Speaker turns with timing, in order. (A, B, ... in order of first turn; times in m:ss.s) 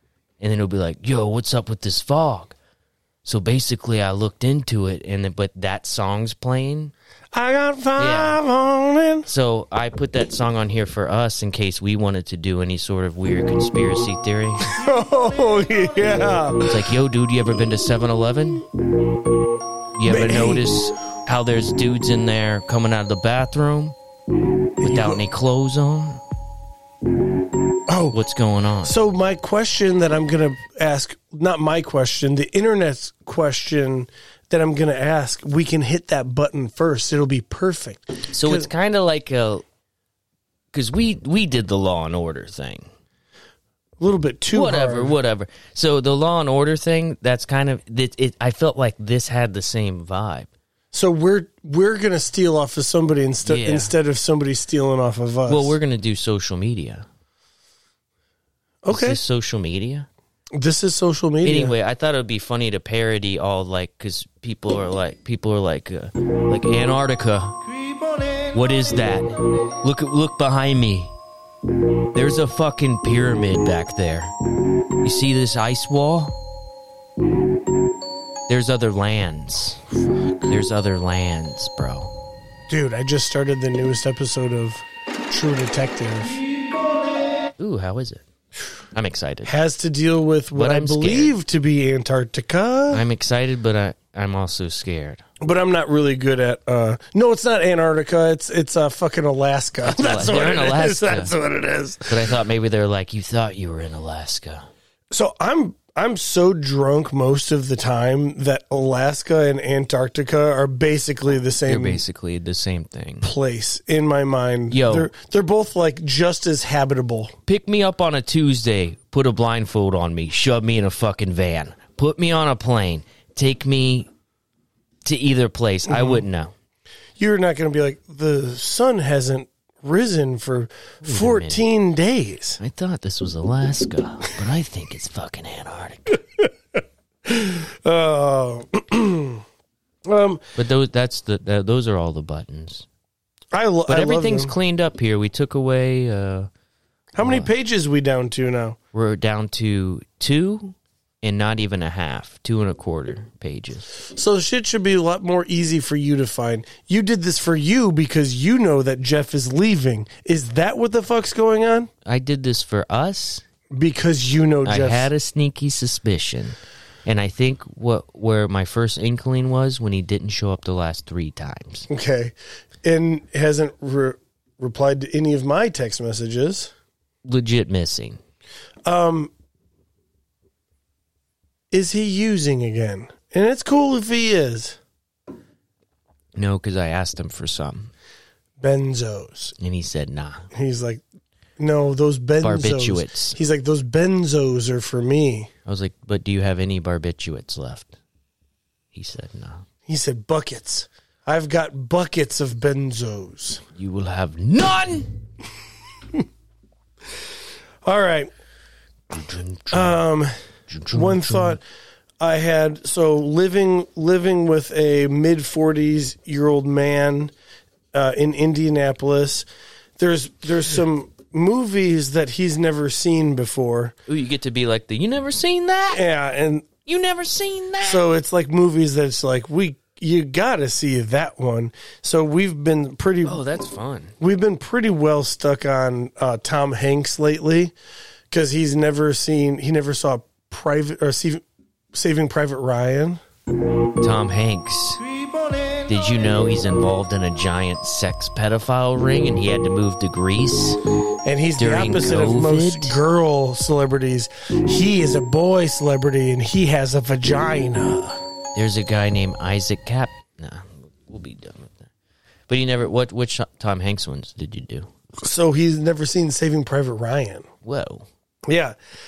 0:00.4-0:02.6 A
0:03.2-0:06.9 A
0:07.3-0:09.3 B
0:08.0-0:08.4 A
0:09.3-0:14.7 A
0:14.7-0:16.8 B
0:16.6-0:18.6 A
0:19.9-0:24.0 A
0:20.0-0:20.7 B
0:24.8-0:25.2 B
0:24.8-0:26.2 A
0:27.9-0:28.2 B
0:28.1-0:28.9 A
0:28.8-0:38.7 B
0:38.3-0:39.6 A
0:40.7-0:42.9 A
0:44.0-0:45.2 B
0:44.5-0:50.5 A
0:50.9-0:55.8 B
0:53.4-0:53.9 A
0:55.4-0:57.0 A
0:58.8-0:59.2 B
0:58.9-1:00.1 A
1:00.5-1:01.8 B
1:01.4-1:07.6 A
1:08.5-1:11.1 A
1:12.1-1:14.3 A
1:15.0-1:16.3 A
1:18.5-1:19.8 A
1:20.4-1:22.1 A
1:22.7-1:26.4 B
1:27.6-1:28.2 A
1:28.9-1:29.5 A
1:29.4-1:33.0 B
1:30.5-1:31.3 A
1:32.9-1:35.2 A
1:35.4-1:42.3 B
1:39.8-1:41.3 A
1:42.1-1:44.7 A
1:45.1-1:52.0 B
1:51.6-1:53.3 A
1:53.2-1:57.3 B
1:54.7-1:55.1 A
1:57.5-2:04.1 A
2:05.0-2:06.5 A
2:05.9-2:06.2 B
2:07.2-2:12.6 B
2:11.0-2:11.6 A
2:12.6-2:16.2 A
2:17.2-2:19.4 B
2:20.0-2:20.4 B
2:20.6-2:22.8 A
2:23.5-2:24.5 B
2:23.9-2:26.5 A
2:27.1-2:28.8 B
2:27.2-2:27.5 A
2:28.9-2:33.9 A
2:34.0-2:41.9 B
2:42.0-2:43.4 A
2:43.7-2:45.1 B
2:44.6-2:51.9 A
2:51.9-2:56.7 B
2:57.2-2:58.2 A
2:58.8-2:59.3 B
3:01.7-3:04.8 B
3:06.3-3:07.9 A
3:08.6-3:09.5 B
3:09.6-3:10.5 A
3:10.5-3:11.0 B
3:11.6-3:15.5 B
3:12.4-3:13.4 A
3:15.6-3:18.0 A
3:18.9-3:19.6 A
3:19.9-3:23.6 B
3:23.8-3:25.2 A
3:27.8-3:28.3 B
3:29.1-3:30.0 A
3:29.7-3:30.3 B
3:30.7-3:31.6 A
3:30.9-3:31.6 B
3:32.2-3:37.3 B
3:37.9-3:39.5 B
3:40.0-3:43.9 B
3:44.1-3:46.0 A
3:45.9-3:46.7 B
3:46.8-3:48.0 A
3:47.8-3:53.4 B
3:53.2-3:54.1 A
3:54.2-3:57.7 B
3:58.3-4:03.2 B
4:04.0-4:05.0 A
4:05.9-4:10.8 A
4:11.2-4:18.2 B
4:11.6-4:13.0 A
4:18.5-4:21.9 A
4:22.5-4:24.9 A
4:25.2-4:27.5 B
4:27.6-4:28.1 A
4:28.4-4:28.8 B